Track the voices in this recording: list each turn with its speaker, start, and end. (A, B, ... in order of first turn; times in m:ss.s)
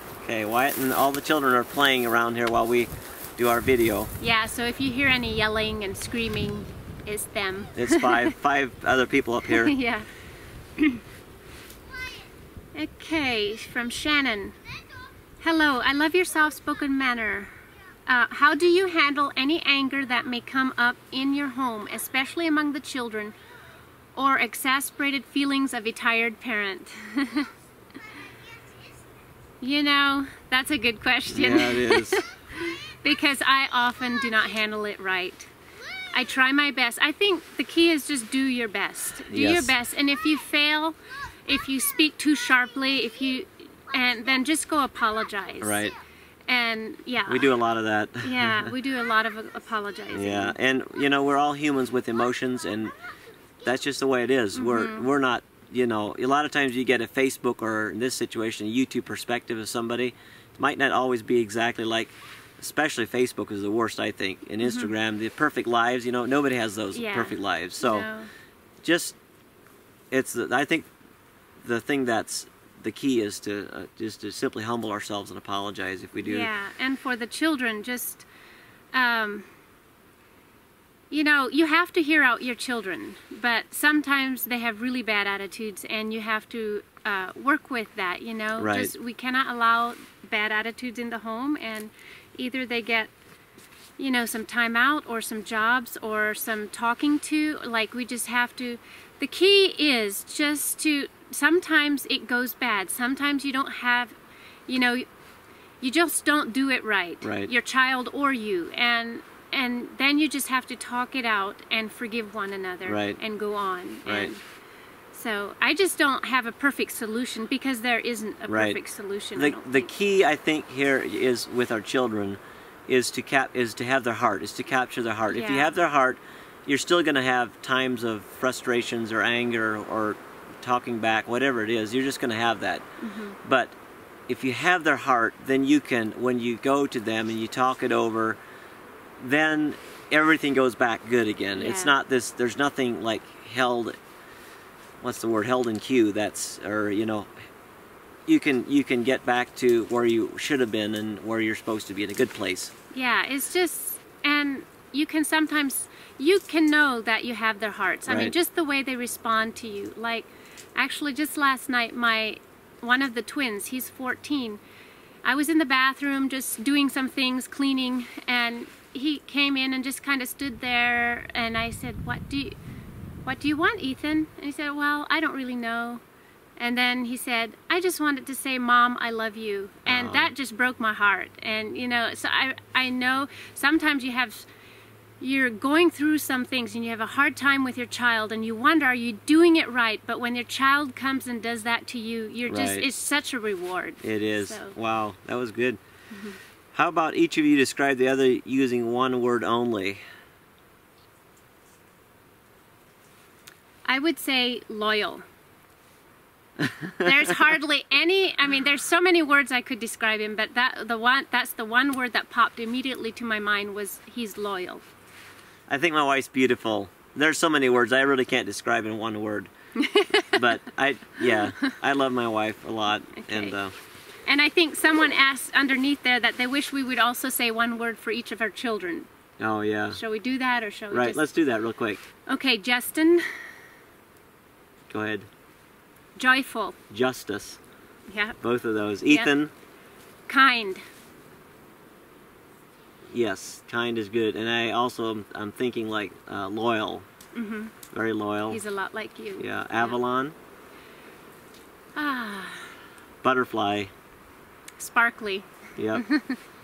0:00.2-0:04.1 A
0:04.2-0:08.3 B
0:07.7-0:09.7 A
0:09.5-0:10.1 B
0:12.7-0:14.6 B
0:15.4-0:17.5 B
0:18.0-0:23.3 B
0:24.1-0:27.5 B
0:29.6-0:35.5 B
0:31.3-0:32.2 A
0:36.1-0:45.9 B
0:39.3-0:39.7 A
0:45.6-0:46.0 A
0:46.5-0:47.5 B
0:47.3-0:48.7 A
0:48.2-0:50.6 B
0:50.1-0:52.9 A
0:53.6-1:08.1 A
0:54.5-0:55.1 B
1:04.6-1:04.9 B
1:06.9-1:08.3 B
1:08.8-1:09.2 A
1:10.1-1:10.9 A
1:11.6-1:16.5 A
1:16.2-1:18.2 B
1:18.9-1:19.5 B
1:21.1-1:33.1 B
1:28.6-1:28.9 A
1:34.0-1:44.2 B
1:44.7-1:45.1 B
1:45.8-1:54.4 B
1:47.2-1:47.5 A
1:52.8-1:53.2 A
1:54.0-1:54.3 A
1:55.1-1:59.9 B
1:58.5-1:58.8 A
1:59.4-2:12.8 A
2:05.3-2:05.7 B
2:13.0-2:13.4 B
2:13.4-2:13.7 A
2:14.3-2:18.4 A
2:19.2-2:24.0 A
2:21.6-2:21.9 B
2:25.0-2:27.3 A
2:28.2-2:32.7 A
2:32.9-2:44.6 B
2:38.1-2:38.3 A
2:45.2-2:52.6 B
2:53.2-2:56.0 B
2:56.6-3:04.4 B
2:59.8-3:00.3 A
3:05.2-3:14.8 B
3:12.5-3:12.8 A
3:14.0-3:15.8 A
3:16.7-3:20.0 A
3:23.8-3:25.2 B
3:26.6-3:27.1 A
3:27.0-3:34.8 B
3:35.7-3:39.5 A
3:39.8-3:40.5 B
3:40.2-3:43.7 A
3:43.1-3:43.6 B
3:44.3-3:49.1 B
3:49.4-3:50.0 A
3:49.9-3:51.2 B
3:50.9-3:52.0 A
3:52.3-3:53.4 B
3:54.9-3:55.3 A
3:56.2-3:56.8 B
3:56.9-3:57.6 A
3:58.1-3:58.4 B
3:58.4-3:59.5 A
4:00.3-4:00.8 B
4:03.1-4:07.0 A
4:07.3-4:07.7 B
4:07.9-4:08.6 A
4:08.5-4:10.0 B
4:09.4-4:10.4 A
4:12.0-4:12.7 B
4:13.2-4:13.9 A
4:14.8-4:16.4 B
4:15.8-4:16.0 A